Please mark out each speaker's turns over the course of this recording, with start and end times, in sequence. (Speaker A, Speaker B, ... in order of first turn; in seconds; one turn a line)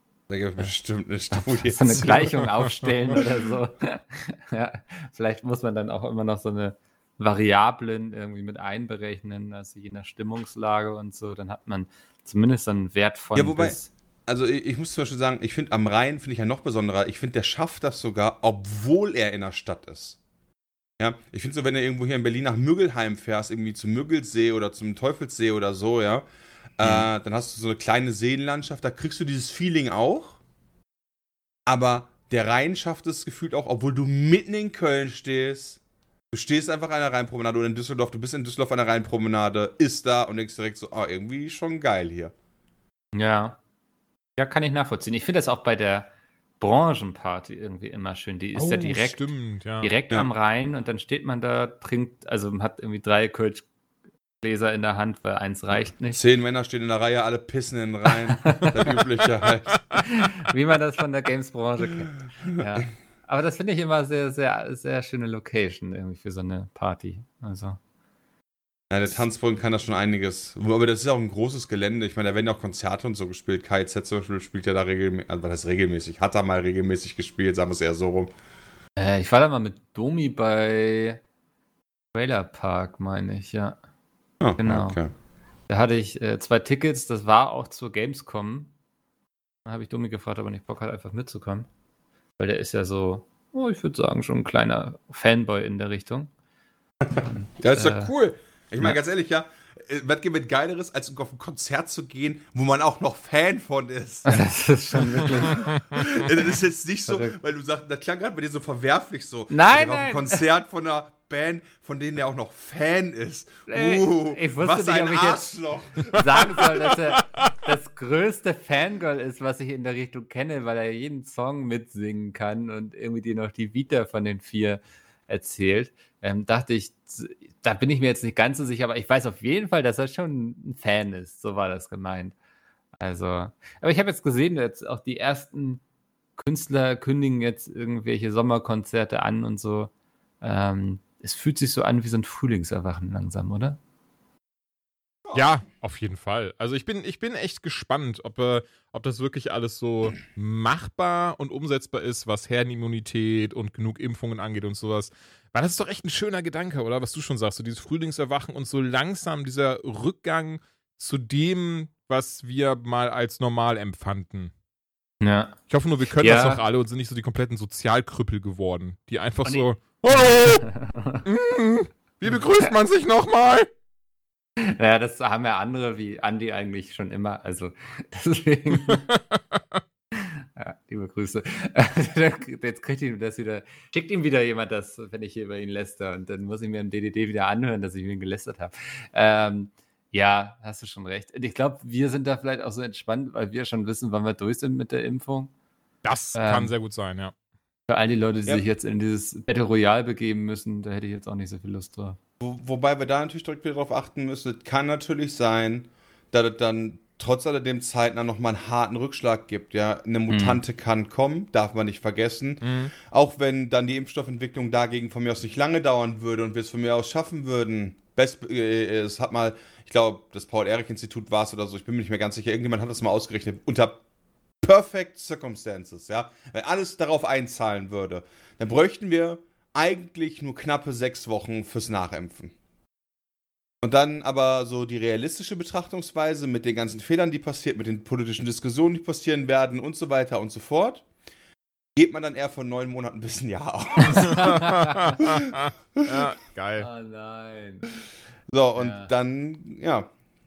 Speaker A: 0.3-2.4
Speaker B: 1.3-13.9
Speaker A: 13.3-20.2
Speaker A: 21.0-26.2
Speaker A: 26.8-30.4
Speaker A: 31.7-35.8
Speaker A: 36.3-42.3
Speaker B: 43.1-43.6
Speaker B: 44.4-46.1
Speaker B: 46.6-49.3
Speaker C: 48.6-49.9
Speaker B: 49.8-53.7
Speaker B: 54.4-56.2
Speaker A: 56.1-60.0
Speaker B: 58.4-58.7
Speaker C: 59.7-60.0
Speaker B: 60.0-67.8
Speaker A: 68.9-78.3
Speaker B: 79.0-81.2
Speaker B: 82.1-83.8
Speaker A: 84.4-85.1
Speaker B: 84.6-85.0
Speaker B: 85.7-88.7
Speaker B: 89.7-91.7
Speaker B: 92.4-96.3
Speaker A: 97.0-104.5
Speaker B: 97.2-98.1
Speaker B: 104.3-106.4
Speaker A: 105.2-116.7
Speaker B: 107.1-107.4
Speaker B: 109.5-110.4
Speaker B: 113.7-115.5
Speaker B: 116.0-132.3
Speaker C: 117.2-117.5
Speaker B: 133.0-135.8
Speaker B: 136.4-143.8
Speaker A: 145.2-145.5
Speaker C: 145.3-164.5
Speaker B: 165.2-165.6
Speaker C: 165.7-170.7
Speaker B: 166.2-166.6
Speaker B: 169.4-171.3
Speaker C: 171.2-173.7
Speaker B: 174.6-179.0
Speaker C: 178.8-179.8
Speaker B: 180.2-195.5
Speaker C: 196.0-197.3
Speaker B: 196.3-196.7
Speaker B: 197.9-202.2
Speaker A: 202.4-224.0
Speaker B: 210.3-210.6
Speaker C: 212.6-212.9
Speaker A: 224.6-232.6
Speaker A: 233.8-241.1
Speaker A: 242.0-244.6
Speaker B: 244.0-245.2
Speaker C: 244.2-246.9
Speaker A: 245.2-246.3
Speaker B: 246.8-247.9
Speaker A: 248.5-250.1
Speaker B: 248.8-249.1